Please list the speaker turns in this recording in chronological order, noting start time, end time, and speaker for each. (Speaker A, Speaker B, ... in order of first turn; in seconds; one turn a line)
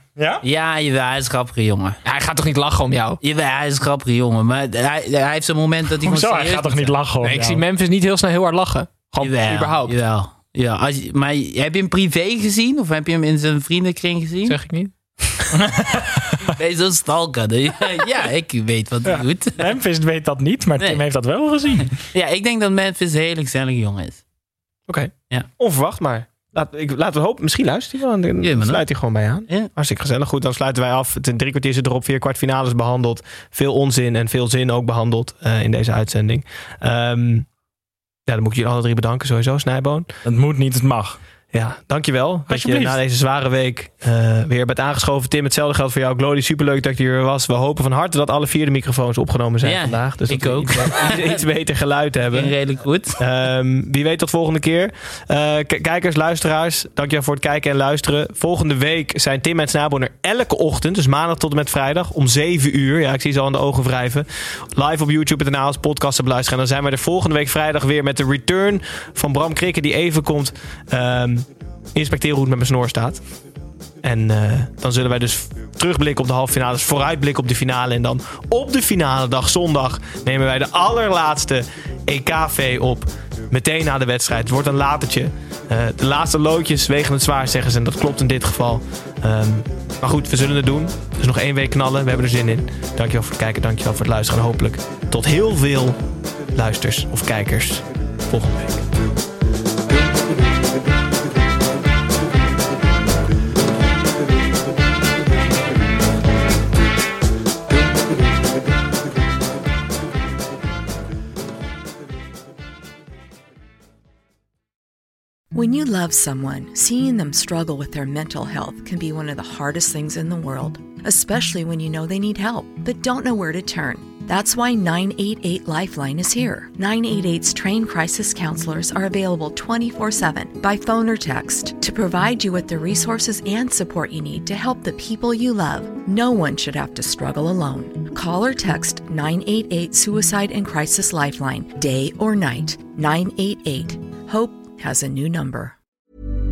Speaker A: 0.2-0.4
Speaker B: 0.4-2.0
Speaker C: 2.0-3.2
Speaker B: 3.2-7.0
Speaker A: 6.0-7.6
Speaker C: 7.2-10.0
Speaker B: 9.2-14.6
Speaker C: 14.5-15.3
Speaker A: 15.5-16.6
Speaker B: 16.6-19.7
Speaker A: 19.1-22.0
Speaker B: 21.8-24.2
Speaker D: 24.9-37.5
Speaker B: 28.4-28.9
Speaker D: 38.3-40.1
Speaker A: 40.2-41.2
Speaker D: 41.5-52.6
Speaker A: 42.5-43.0
Speaker B: 49.6-51.5
Speaker B: 52.3-53.2
Speaker D: 53.2-73.3
Speaker D: 74.0-96.0
Speaker D: 96.5-98.9
Speaker E: 115.5-145.8